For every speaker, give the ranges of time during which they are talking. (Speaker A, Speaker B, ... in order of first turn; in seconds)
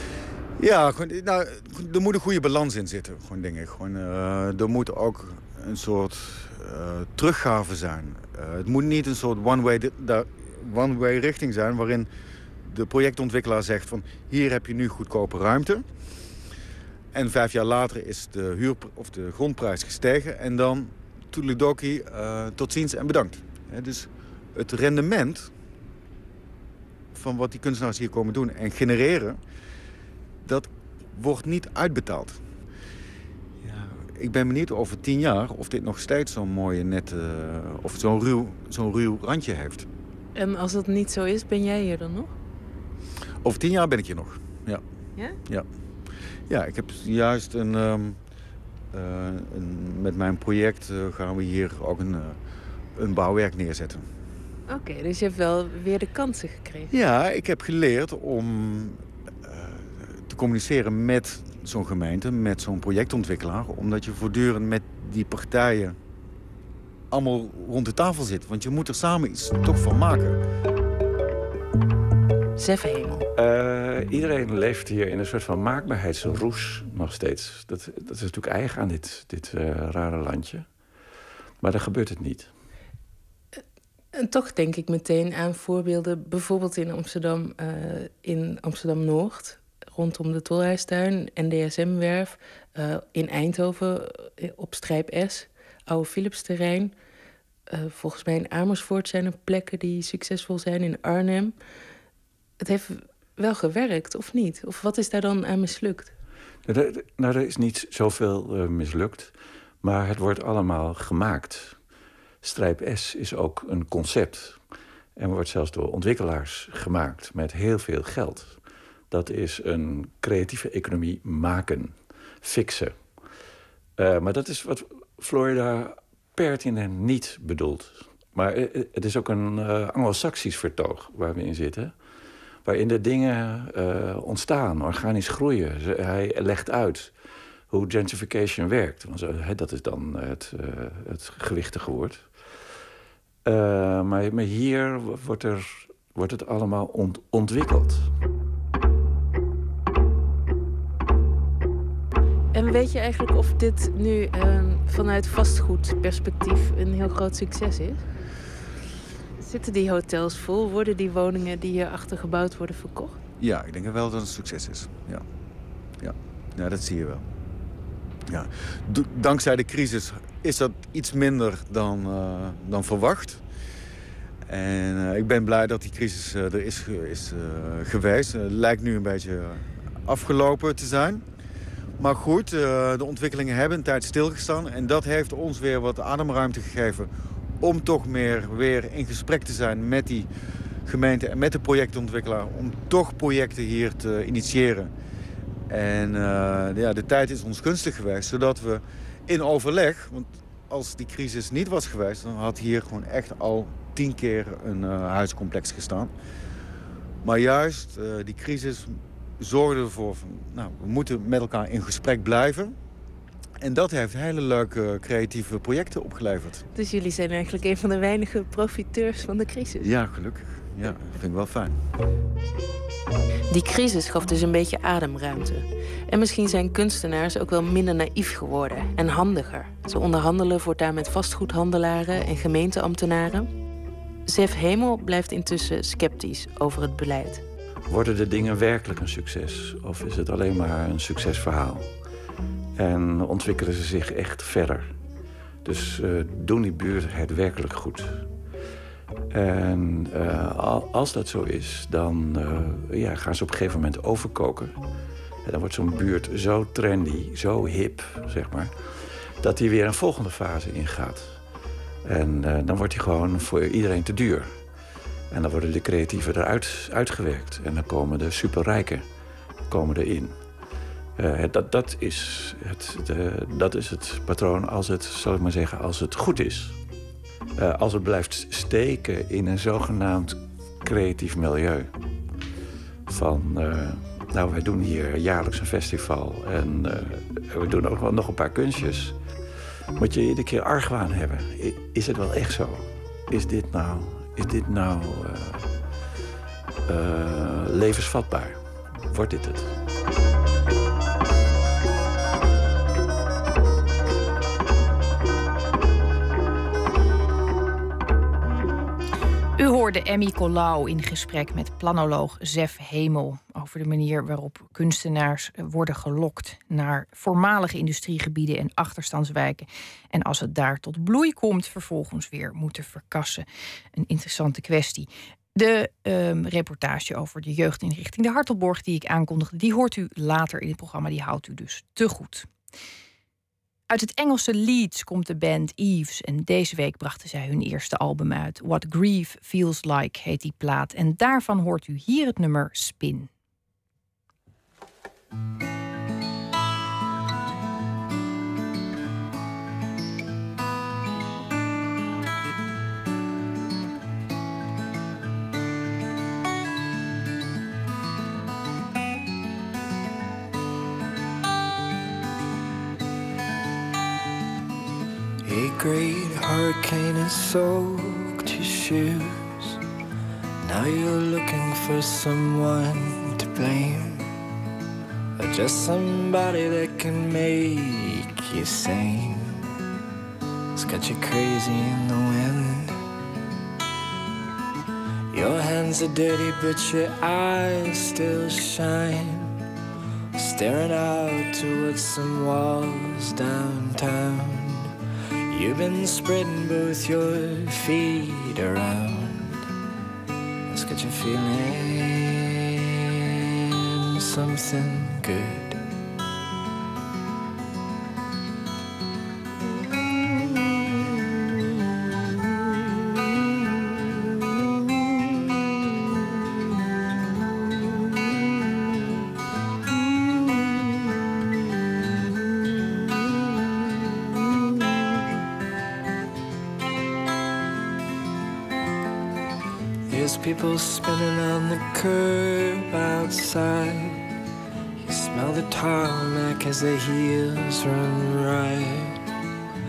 Speaker A: 0.6-12.1, 12.6-15.9, 17.1-25.5, 27.1-29.4, 30.4-32.4, 33.7-39.9, 43.4-44.8, 46.5-48.2, 48.9-52.4, 52.9-54.1, 56.9-66.0, 67.1-70.4, 163.4-165.2, 166.0-167.2, 168.3-173.4, 174.4-181.2, 182.0-190.3, 190.8-194.9, 195.7-206.1, 207.2-212.8, 213.6-216.6, 219.8-221.8
Speaker B: 40.3-42.3, 54.7-56.9, 72.6-73.2, 84.1-96.9, 97.7-101.5, 102.6-106.1, 152.5-158.1, 159.4-163.2, 216.7-219.9, 223.5-233.5, 234.2-237.4
Speaker C: 73.3-80.8, 81.6-82.5, 106.7-111.8, 112.4-114.6, 115.2-123.3, 124.0-132.0, 132.6-142.7, 143.4-148.1, 237.9-241.9, 242.8-244.9, 245.6-248.3, 249.3-254.8, 255.4-261.4, 262.0-264.6, 265.3-269.1, 269.7-270.4, 271.1-276.8, 277.6-281.9, 283.1-289.2, 289.9-295.7, 296.9-299.7
Speaker D: 309.6-332.5, 333.9-343.3
Speaker E: 365.4-369.8, 370.6-374.4, 375.4-379.6, 380.7-383.0, 385.3-389.6, 390.3-394.9, 395.5-399.6, 400.7-403.0, 403.9-405.8, 430.1-434.2, 435.0-439.2